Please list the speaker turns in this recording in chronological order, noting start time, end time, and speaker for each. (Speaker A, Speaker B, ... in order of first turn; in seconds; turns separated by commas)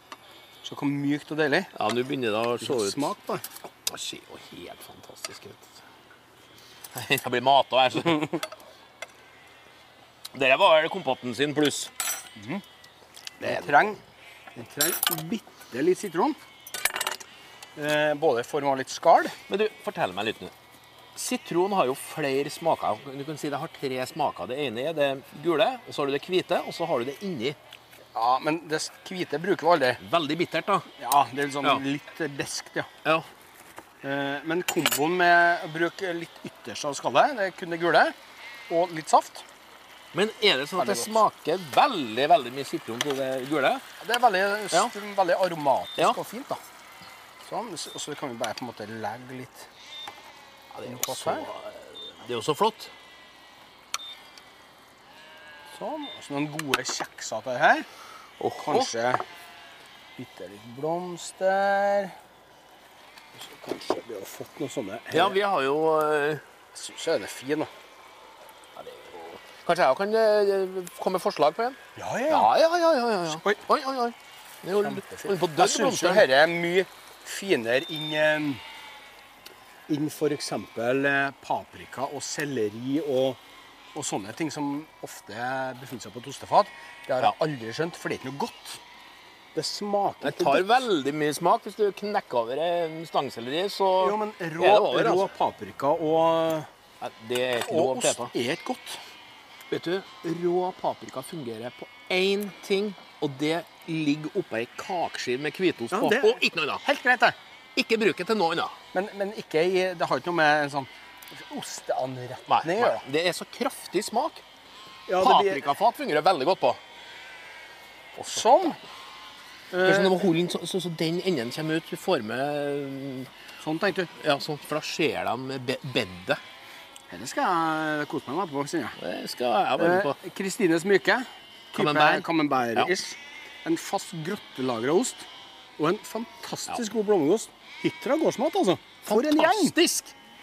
Speaker A: 0.6-1.7, Speaker B: 1.8-3.1, Speaker A: 2.6-3.4, Speaker B: 3.9-5.7, Speaker B: 6.9-8.4, Speaker B: 10.3-11.9, Speaker A: 12.4-12.6, Speaker A: 13.4-14.0, Speaker A: 14.6-16.4, Speaker A: 17.8-19.4, Speaker B: 19.5-20.5, Speaker B: 21.1-27.6, Speaker A: 28.1-30.0, Speaker B: 30.0-30.9, Speaker A: 31.0-32.9, Speaker A: 34.0-38.1, Speaker A: 38.7-39.4, Speaker B: 40.1-43.8, Speaker A: 40.8-41.2, Speaker A: 44.0-46.6, Speaker A: 47.5-49.7, Speaker B: 50.7-52.9, Speaker A: 50.9-51.5, Speaker A: 55.7-57.9, Speaker B: 58.4-58.9, Speaker A: 58.6-59.2, Speaker A: 60.2-62.1, Speaker A: 63.4-65.4, Speaker B: 65.1-66.4, Speaker A: 66.7-67.7, Speaker B: 68.8-71.8, Speaker A: 72.0-72.5, Speaker B: 72.3-76.3, Speaker A: 73.3-73.6, Speaker A: 74.8-78.6, Speaker A: 79.9-83.4, Speaker A: 83.9-88.8, Speaker A: 89.5-90.9, Speaker B: 90.2-95.3, Speaker A: 94.0-96.7, Speaker B: 97.0-98.3, Speaker A: 97.6-99.0, Speaker B: 99.7-106.8, Speaker A: 105.9-107.4, Speaker B: 107.8-108.8, Speaker A: 108.9-113.1, Speaker B: 112.5-114.4, Speaker A: 115.1-115.7, Speaker B: 115.2-116.8, Speaker B: 118.2-118.7, Speaker A: 118.3-118.8, Speaker A: 119.7-120.2, Speaker B: 119.8-123.3, Speaker A: 123.6-124.1, Speaker B: 124.2-126.4, Speaker A: 127.1-129.0, Speaker B: 129.0-130.2, Speaker A: 129.8-135.3, Speaker B: 131.7-132.9, Speaker A: 135.8-139.8, Speaker B: 139.0-140.1